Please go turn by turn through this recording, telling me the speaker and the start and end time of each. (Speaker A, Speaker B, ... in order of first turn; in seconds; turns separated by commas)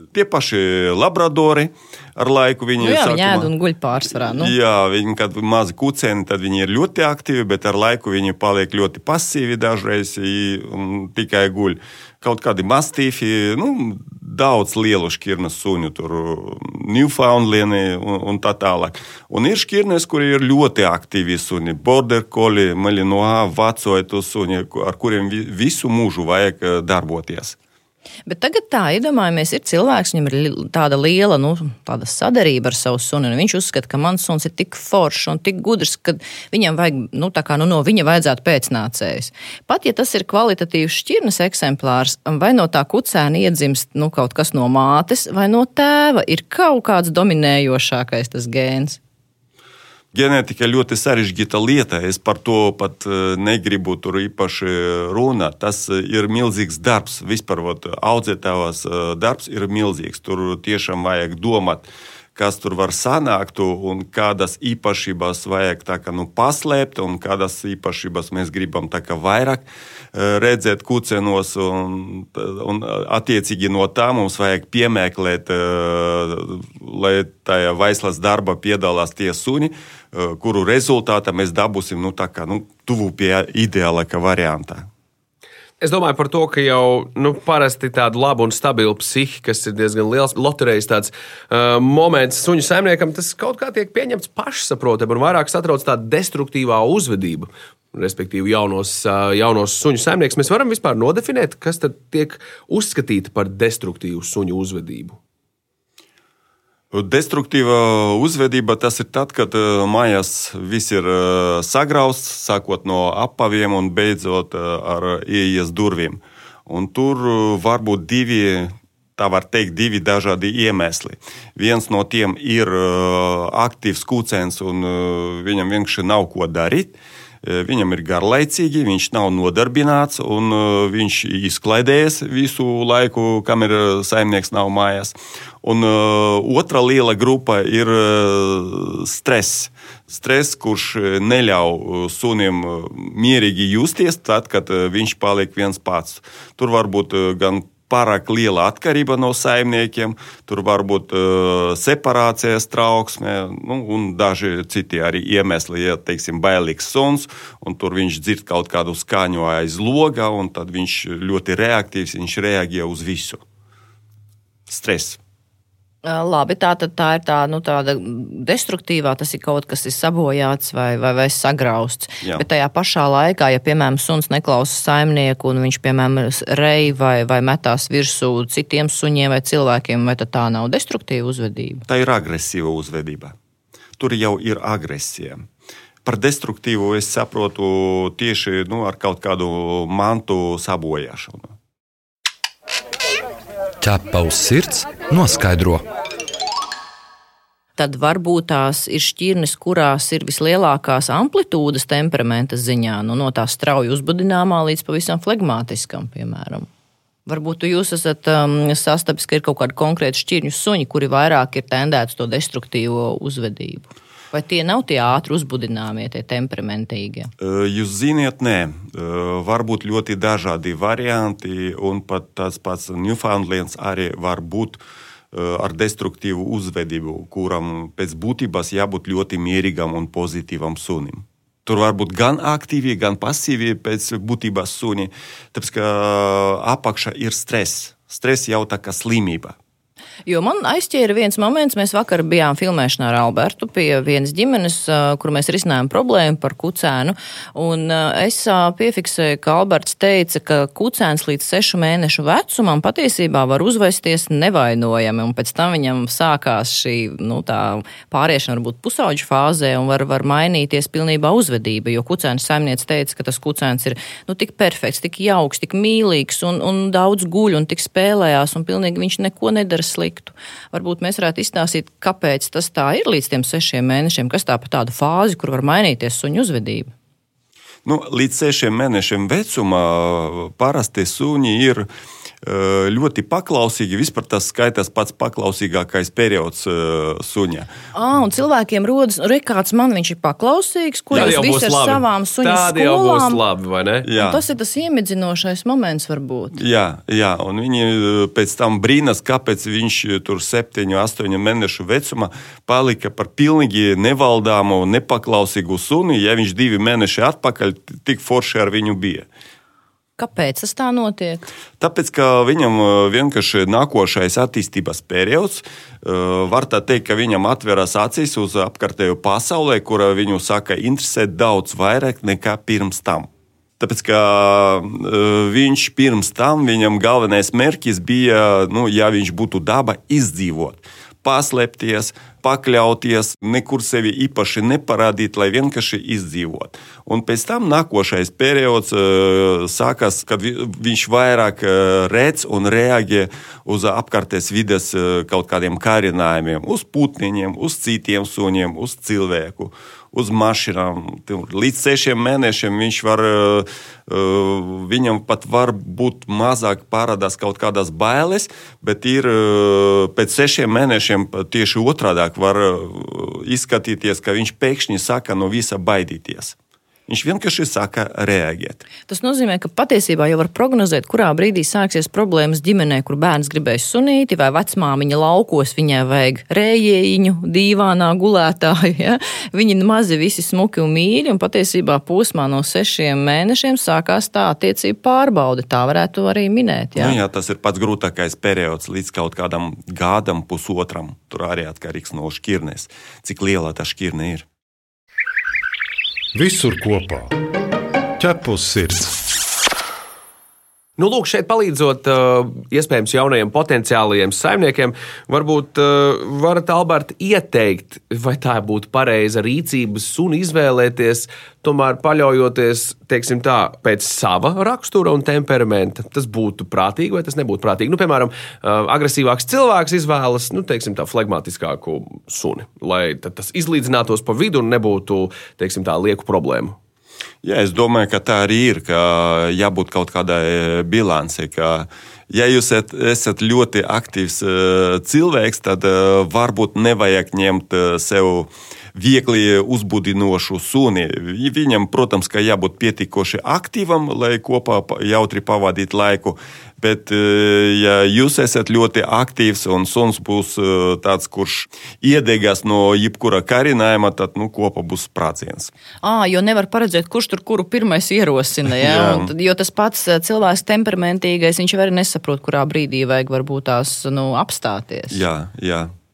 Speaker A: 0.1-3.5, Speaker B: 2.8-4.5, Speaker A: 4.1-27.6, Speaker B: 28.3-49.0, Speaker A: 50.1-84.9, Speaker C: 85.8-105.2, Speaker A: 106.9-163.4, Speaker A: 164.7-165.2, Speaker B: 166.0-181.9, Speaker A: 181.9-183.3, Speaker A: 184.0-185.4, Speaker A: 186.1-191.5, Speaker D: 193.8-195.8, Speaker B: 197.8-206.7, Speaker B: 207.3-217.3, Speaker A: 217.4-239.6, Speaker B: 240.3-276.9, Speaker A: 277.9-281.9, Speaker A: 282.4-287.7, Speaker B: 287.9-293.4, Speaker C: 291.1-294.1, Speaker A: 294.0-294.4, Speaker B: 294.1-296.6, Speaker A: 296.5-309.3, Speaker B: 310.2-311.5, Speaker A: 311.8-366.6, Speaker A: 367.1-368.8, Speaker B: 369.1-387.2, Speaker A: 386.9-394.5, Speaker E: 396.4-397.3, Speaker E: 398.2-399.2, Speaker C: 401.0-426.8, Speaker A: 427.4-455.7, Speaker B: 456.0-465.2, Speaker A: 458.8-459.3, Speaker A: 465.1-465.9